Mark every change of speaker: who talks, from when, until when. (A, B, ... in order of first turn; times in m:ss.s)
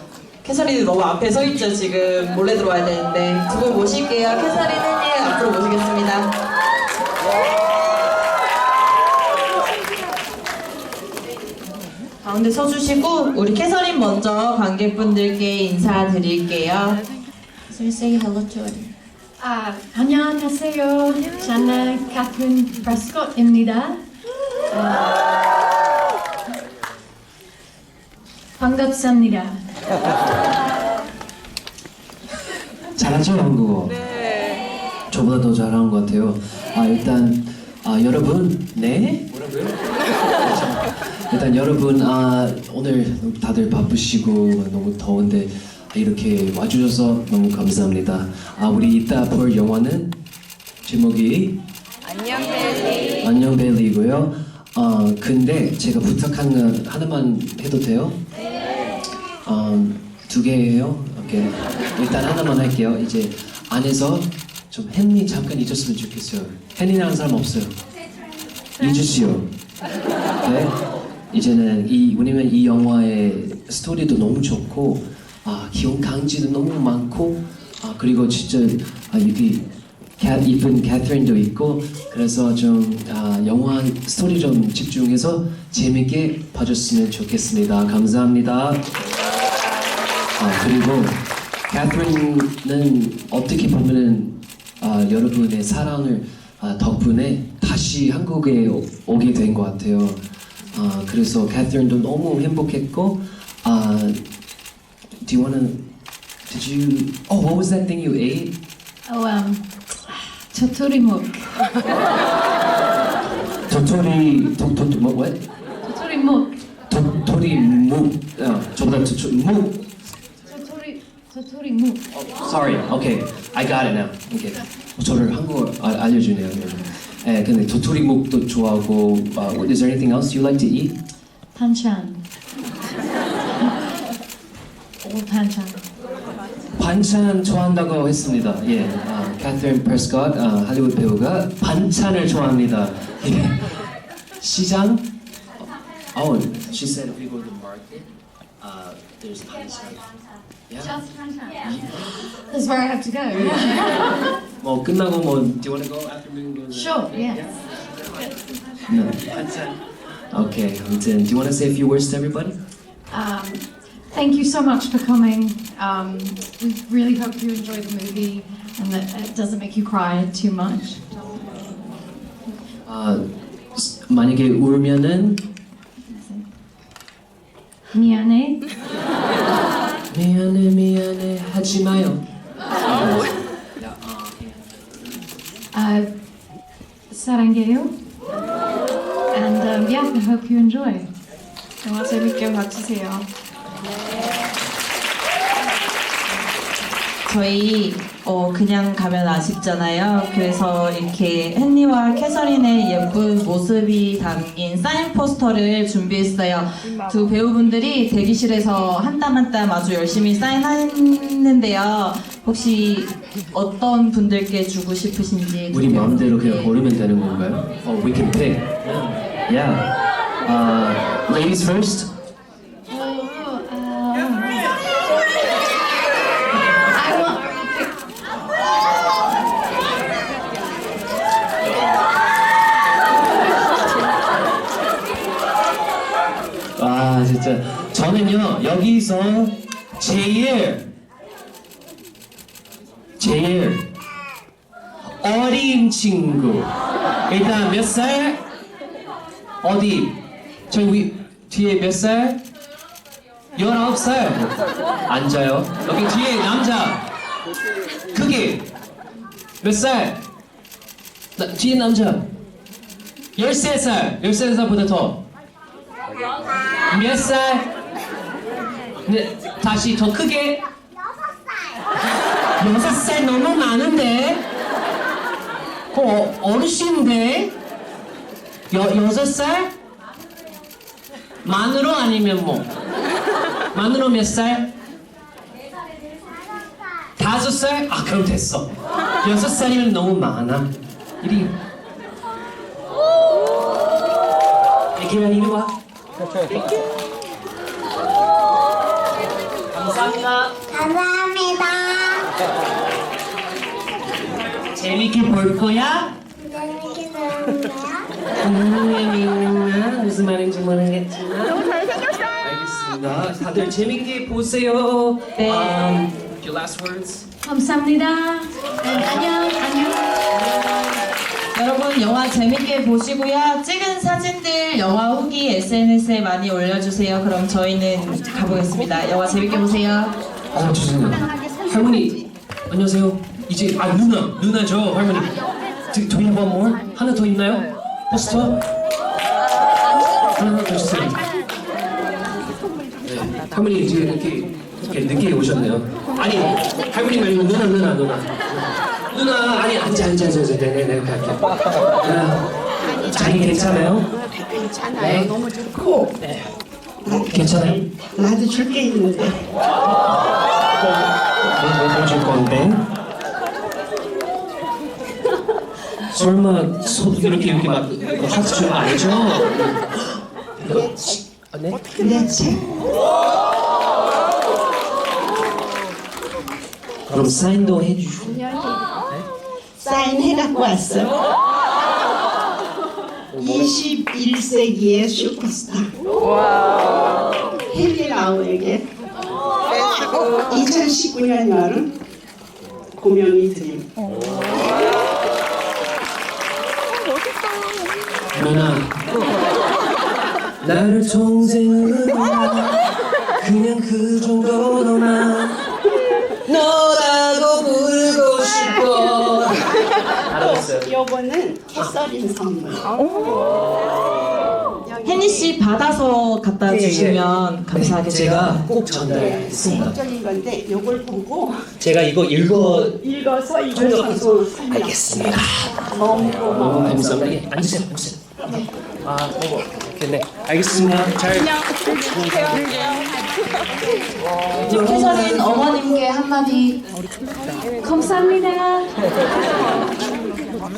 0:00.4-0:06.3 A
0:12.2-0:17.0 A
0:17.7-0:18.9 A
0:19.4-0:24.0 B
0:24.7-0:25.1 B
0:28.6-0:29.6 B
0:33.0-0:33.9 C
0:35.1-0:39.7 C
0:40.4-0:50.1 C
0:50.8-0:51.6 C
0:53.0-0:58.2 C
0:59.4-1:07.7 C
1:08.8-1:09.5 C
1:10.4-1:10.7 C
1:11.3-1:19.6 C
1:20.2-1:28.9 C
1:30.4-1:31.2 C
1:31.7-1:44.2 C
1:45.2-1:45.8 C
1:46.5-1:48.5 C
1:49.1-1:51.6 B
1:53.7-1:55.4 C
1:55.8-1:56.5 B
1:56.9-1:59.8 C
2:00.5-2:02.0 B
2:02.1-2:10.9 C
2:11.5-2:12.2 B
2:15.0-2:15.8 B
2:16.8-2:23.8 C
2:24.4-2:25.1 C
2:26.1-2:28.1 C
2:28.6-2:30.1 C
2:30.7-2:30.9 C
2:30.8-2:31.6 B
2:31.6-2:32.1 C
2:32.2-2:34.3 B
2:34.6-2:37.6 C
2:36.7-2:37.4 B
2:38.9-2:42.6 C
2:43.1-2:51.0 B
2:52.9-2:55.4 C
2:56.1-2:56.4 B
2:57.9-2:58.6 B
3:00.1-3:02.2 C
3:02.9-3:04.7 C
3:05.7-3:06.1 B
3:07.1-3:07.9 B
3:09.3-3:11.1 B
3:11.8-3:13.2 A
3:17.2-3:36.7 A
3:35.7-3:39.9 C
3:40.4-3:42.1 C
3:42.9-3:44.7 B
3:46.9-3:47.9 B
3:56.8-4:00.8 C
4:03.2-4:03.8 C
4:05.2-4:06.7 C
4:07.3-4:08.4 C
4:09.6-4:10.1 C
4:10.7-4:12.4 C
4:13.5-4:17.0 C
4:18.1-4:18.6 C
4:19.6-4:20.2 C
4:21.4-4:22.3 C
4:23.4-4:25.2 C
4:26.9-4:27.6 C
4:29.0-4:30.6 C
4:32.6-4:34.4 C
4:35.9-4:37.5 C
4:38.7-4:39.7 C
4:41.4-4:42.7 C
4:43.7-4:44.7 C
4:47.2-4:51.6 C
4:55.0-4:55.7 C
4:59.7-5:00.7 C
5:00.8-5:02.1 D
5:04.7-5:06.1 C
5:06.5-5:07.6 D
5:08.4-5:11.7 C
5:12.4-5:17.3 C
5:15.4-5:15.8 A
5:17.4-5:20.2 B
5:21.5-5:30.2 A
5:30.5-5:35.3 C
5:35.9-5:38.6 C
5:40.4-5:41.2 C
5:43.0-5:48.6 C
5:49.1-5:51.4 C
5:52.0-5:52.4 C
5:52.8-5:56.4 E
5:53.0-5:54.1 C
5:55.0-5:55.3 C
5:57.0-5:59.5 E
5:57.1-5:57.8 C
6:01.4-6:02.8 C
6:06.1-6:12.0 C
6:10.6-6:11.2 E
6:12.0-6:12.7 E
6:17.1-6:18.4 C
6:19.8-6:21.2 E
6:23.3-6:25.9 E
6:27.7-6:28.9 E
6:30.5-6:31.9 E
6:33.0-6:33.9 E
6:38.3-6:39.2 C
6:40.6-6:42.8 C
6:43.4-6:45.6 C
6:46.4-6:49.8 C
6:50.3-6:50.9 C
6:50.4-6:52.9 E
6:55.0-6:58.6 A
6:56.7-6:57.2 C
6:57.7-7:00.0 C
6:59.0-7:01.7 E
7:01.8-7:03.0 C
7:03.0-7:05.3 E
7:03.7-7:08.4 C
7:05.9-7:07.3 E
7:09.0-7:11.6 C
7:14.6-7:16.8 A
7:17.8-7:18.9 B